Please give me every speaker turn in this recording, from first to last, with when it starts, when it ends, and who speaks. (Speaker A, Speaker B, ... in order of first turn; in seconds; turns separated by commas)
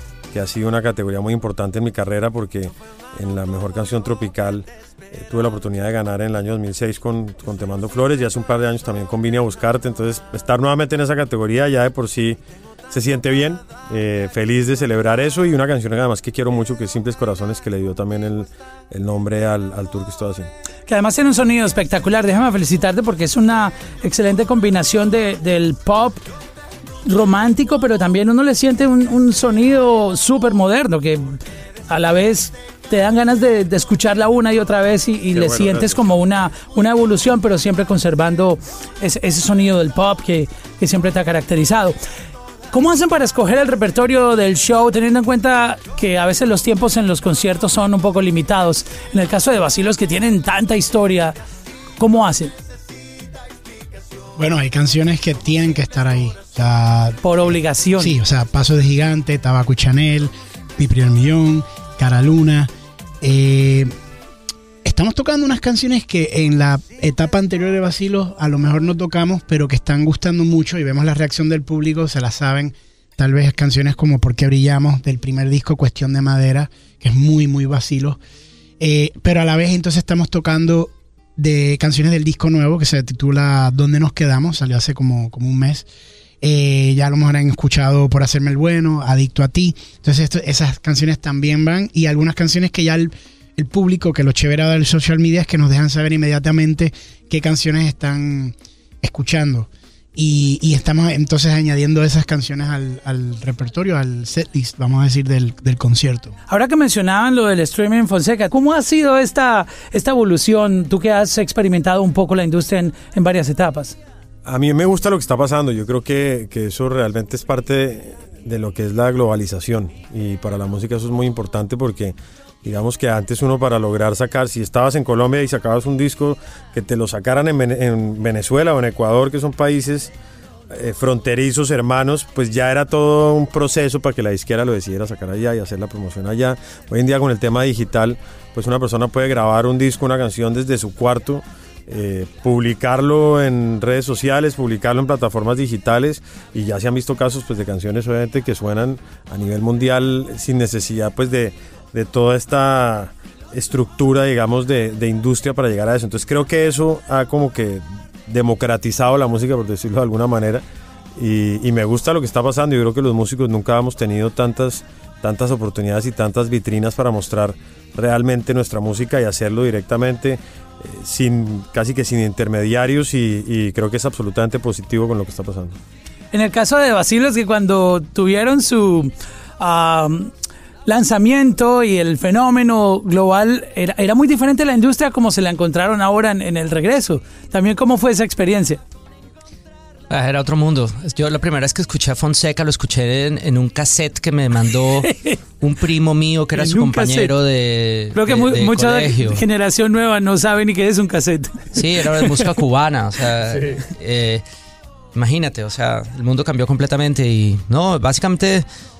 Speaker A: 0.3-12.4, Speaker A: 12.9-20.5, Speaker B: 20.9-26.2, Speaker B: 27.0-31.4, Speaker B: 31.9-42.0, Speaker A: 35.3-36.0, Speaker B: 42.7-51.3, Speaker B: 52.0-52.5, Speaker C: 54.4-62.7, Speaker B: 57.2-58.1, Speaker C: 63.2-63.9, Speaker C: 64.8-78.2, Speaker C: 78.8-85.8, Speaker C: 86.4-106.3, Speaker B: 106.5-114.0, Speaker A: 114.4-130.1, Speaker A: 130.7-160.6, Speaker A: 161.2-175.8, Speaker B: 176.3-180.3, Speaker B: 180.8-188.8, Speaker D: 190.1-199.4, Speaker B: 196.5-197.3, Speaker B: 198.1-202.4, Speaker D: 201.7-204.4, Speaker D: 205.1-208.7